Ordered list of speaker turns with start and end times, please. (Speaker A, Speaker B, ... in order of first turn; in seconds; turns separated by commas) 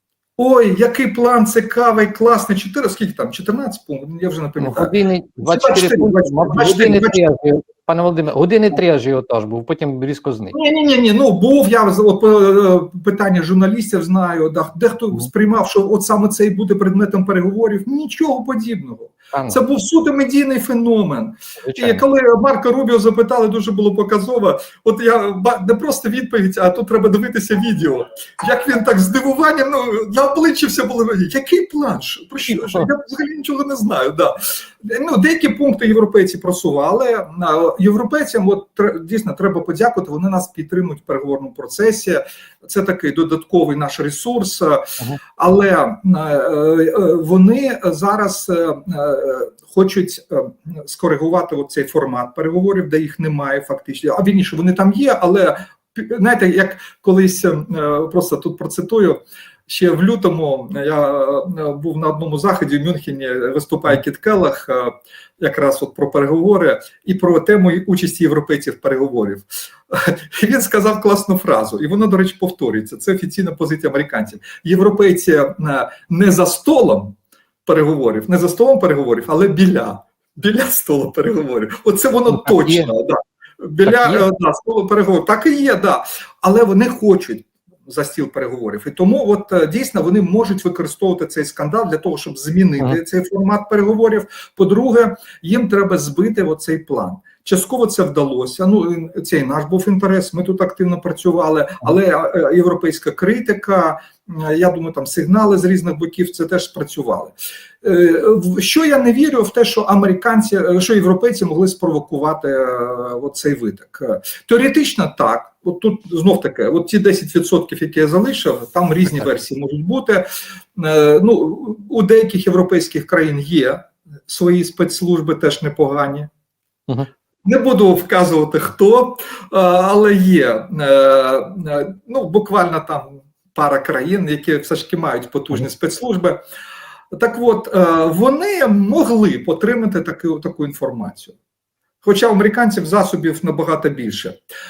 Speaker A: 0.4-7.2, Speaker B: 4.6-10.5, Speaker A: 10.5-77.1, Speaker B: 19.3-19.6, Speaker B: 21.6-22.0, Speaker B: 32.5-32.9, Speaker A: 77.7-126.3, Speaker B: 82.3-82.9, Speaker B: 83.8-84.2, Speaker A: 127.4-136.4, Speaker A: 137.1-141.3, Speaker A: 142.0-144.4